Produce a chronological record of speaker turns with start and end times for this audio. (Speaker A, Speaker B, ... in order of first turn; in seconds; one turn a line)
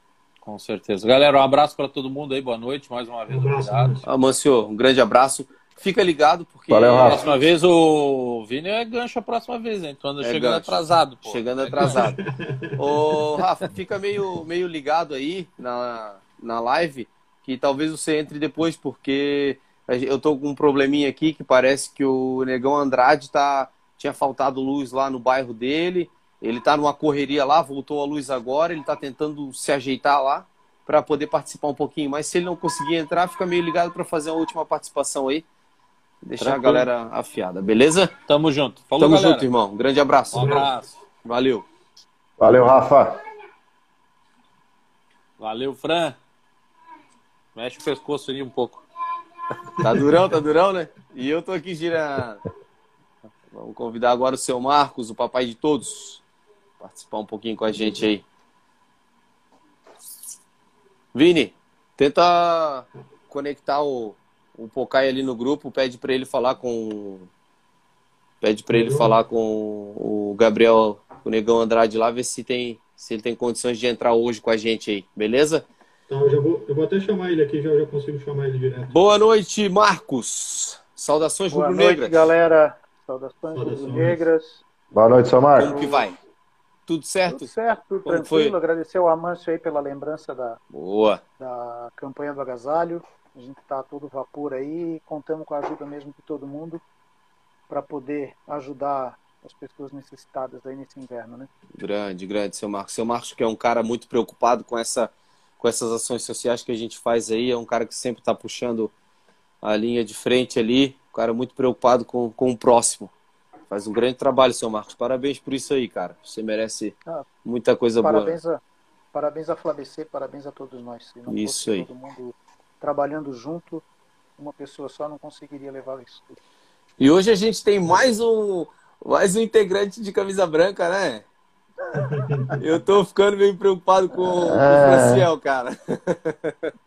Speaker A: 0.4-4.0
Speaker B: 3.3-4.0
Speaker C: 4.0-7.5
Speaker D: 6.7-7.3
Speaker A: 7.0-12.0
Speaker C: 10.2-12.2
Speaker B: 11.8-13.0
Speaker C: 12.8-35.5
Speaker C: 36.2-38.1
Speaker A: 36.4-36.9
Speaker A: 38.3-39.5
Speaker C: 39.0-40.7
Speaker A: 40.3-41.0
Speaker B: 40.4-40.7
Speaker C: 41.2-41.6
Speaker D: 42.4-43.2
Speaker A: 45.4-46.2
Speaker A: 47.5-48.8
Speaker C: 49.8-52.4
Speaker C: 53.5-56.2
Speaker C: 56.8-58.2
Speaker C: 61.1-67.3
Speaker C: 68.4-75.6
Speaker B: 68.7-69.1
Speaker B: 76.1-78.9
Speaker C: 78.9-82.3
Speaker E: 81.5-84.6
Speaker B: 83.5-84.2
Speaker D: 84.9-85.9
Speaker C: 85.5-86.2
Speaker E: 85.7-86.0
Speaker C: 86.9-87.5
Speaker E: 87.3-90.6
Speaker C: 88.0-88.5
Speaker C: 90.7-91.2
Speaker E: 91.4-96.8
Speaker E: 97.7-101.5
Speaker C: 101.8-108.9
Speaker C: 109.6-113.1
Speaker C: 113.7-118.4
Speaker E: 118.0-118.6
Speaker E: 119.1-123.8
Speaker C: 121.3-121.9
Speaker E: 124.4-126.3
Speaker C: 127.0-131.2
Speaker B: 131.9-132.6
Speaker C: 132.6-136.7
Speaker D: 134.3-135.3